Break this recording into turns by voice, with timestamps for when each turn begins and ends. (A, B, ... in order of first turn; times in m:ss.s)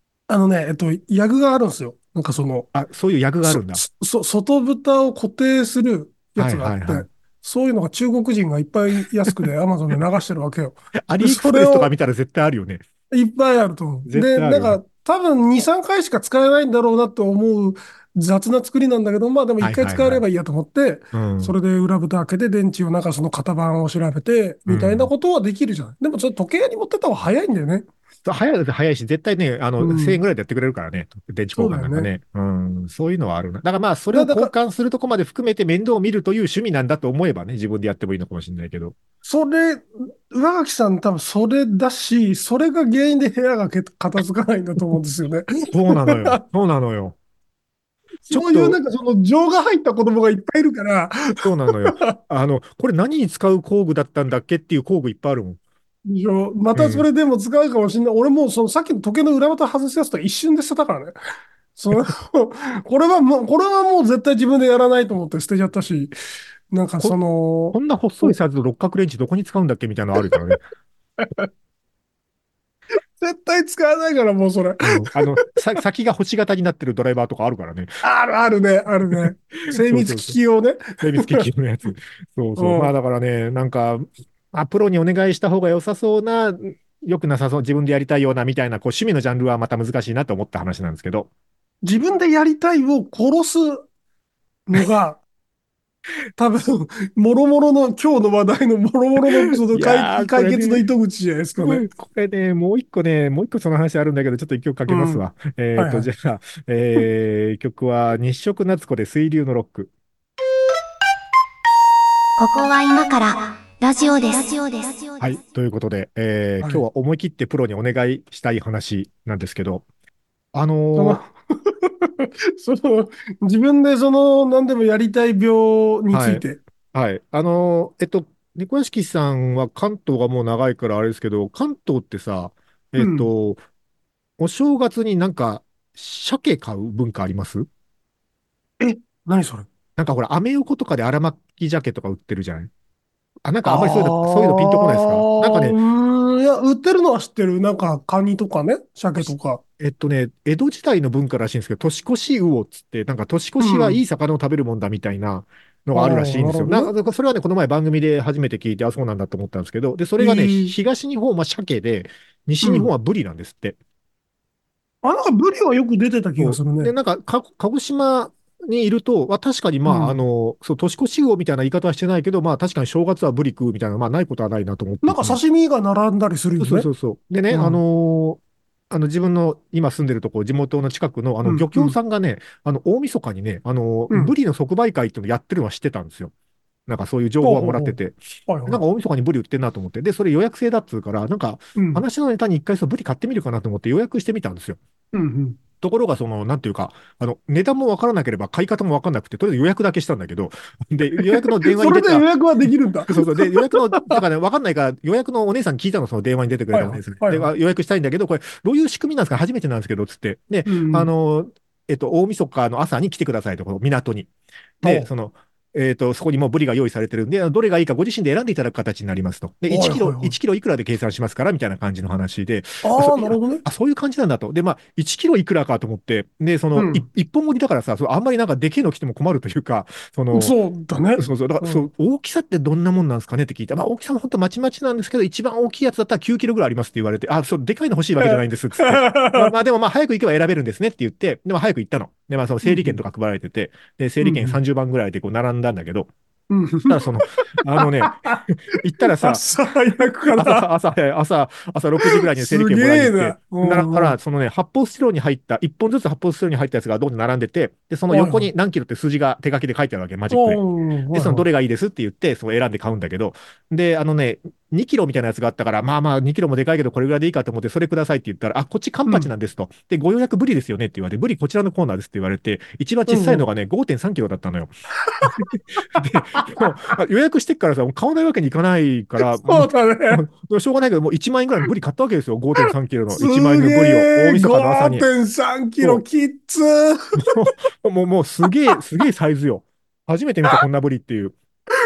0:00.3-0:02.7 A
0:02.7-0:03.8 B
0:03.4-0:11.9 A
0:06.4-0:07.1 B
0:11.1-0:12.8 B
0:13.1-0:27.9 A
0:14.1-0:14.8 B
0:19.6-0:20.2 B
0:21.1-0:21.5 B
0:24.7-0:25.1 B
0:28.2-0:39.0 B
0:29.8-0:30.2 A
0:31.6-0:32.1 A
0:34.1-0:34.5 A
0:39.2-0:46.4 A
0:45.7-0:47.2 B
0:48.3-0:52.1 A
0:48.3-0:48.8 B
0:51.4-0:55.6 B
0:56.0-1:01.1 A
0:56.7-0:57.0 B
1:01.8-1:06.1 A
1:06.7-1:08.4 A
1:07.7-1:10.6 B
1:11.2-1:11.5 A
1:13.2-1:15.4 A
1:14.8-1:17.9 B
1:18.0-1:21.4 A
1:19.1-1:20.4 B
1:21.0-1:31.3 B
1:22.6-1:22.9 A
1:31.8-1:33.9 A
1:34.7-1:35.2 A
1:36.4-1:41.8 A
1:39.7-1:40.8 B
1:41.6-1:49.9 B
1:44.9-1:45.2 A
1:45.8-1:46.1 A
1:52.4-1:55.4 C
1:55.2-1:59.8 B
2:00.5-2:01.2 B
2:00.9-2:06.6 A
2:06.1-2:13.6 B
2:13.0-2:13.3 A
2:14.4-2:17.7 B
2:18.8-2:19.7 A
2:20.0-2:22.7 B
2:23.4-2:25.8 B
2:23.6-2:29.6 A
2:29.8-2:43.8 B
2:33.6-2:34.0 A
2:35.9-2:36.9 A
2:40.2-2:40.7 A
2:42.6-2:42.9 A
2:45.0-2:46.9 A
2:46.4-2:55.4 B
2:49.8-2:50.2 A
2:55.0-2:56.9 A
2:56.6-3:06.3 B
2:57.5-2:57.8 A
3:01.4-3:01.9 A
3:06.9-3:08.1 B
3:07.4-3:08.0 A
3:08.5-3:08.8 A
3:08.6-3:14.8 B
3:11.8-3:12.0 A
3:15.1-3:15.6 A
3:15.8-3:22.2 B
3:21.2-3:24.2 A
3:23.1-3:34.3 B
3:26.7-3:27.5 A
3:30.7-3:31.1 A
3:34.8-3:50.6 B
3:34.8-3:35.1 A
3:39.7-3:40.3 A
3:42.8-3:43.6 A
3:46.8-3:47.0 A
3:50.3-3:51.8 A
3:51.2-4:06.1 B
3:58.2-3:59.5 A
4:02.6-4:03.0 A
4:04.2-4:04.6 A
4:06.5-4:08.4 A
4:06.9-4:09.4 B
4:09.0-4:10.7 A
4:10.3-4:20.6 B
4:12.0-4:14.2 A
4:18.1-4:18.5 A
4:20.3-4:21.4 A
4:21.1-4:34.7 B
4:33.1-4:33.4 A
4:35.0-4:36.6 A
4:35.2-4:45.0 B
4:39.3-4:40.2 A
4:43.1-4:47.5 A
4:47.2-4:51.3 B